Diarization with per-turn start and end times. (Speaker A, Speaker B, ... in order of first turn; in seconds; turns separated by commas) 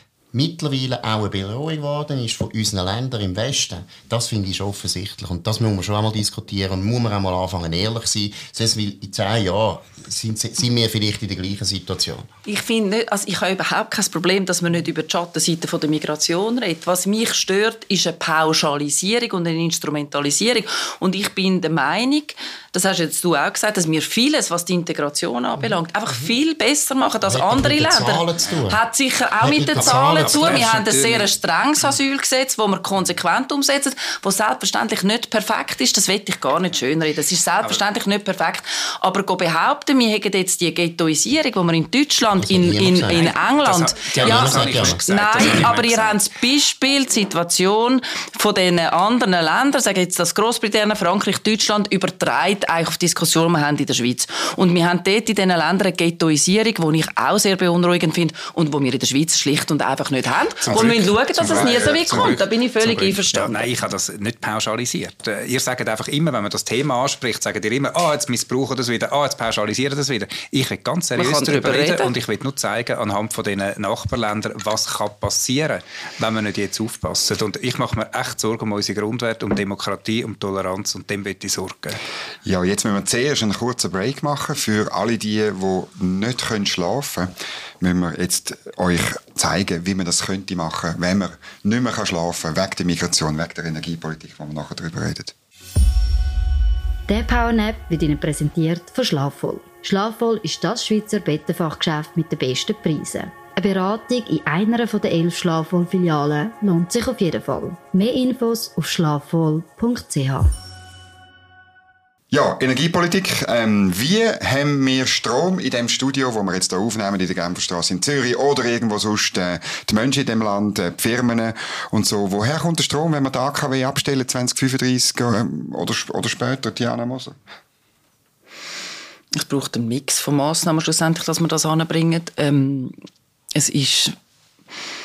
Speaker A: 0.3-12.3, Speaker B: 12.4-63.7, Speaker A: 27.2-28.8, Speaker A: 29.4-30.6, Speaker C: 29.8-31.3, Speaker A: 42.4-43.3, Speaker C: 43.1-46.2, Speaker A: 44.1-45.6, Speaker C: 60.6-82.0, Speaker D: 61.5-62.2, Speaker B: 71.2-72.1, Speaker D: 82.4-95.3, Speaker E: 97.1-110.5, Speaker D: 112.3-127.4, Speaker B: 129.3-132.9, Speaker B: 133.5-134.1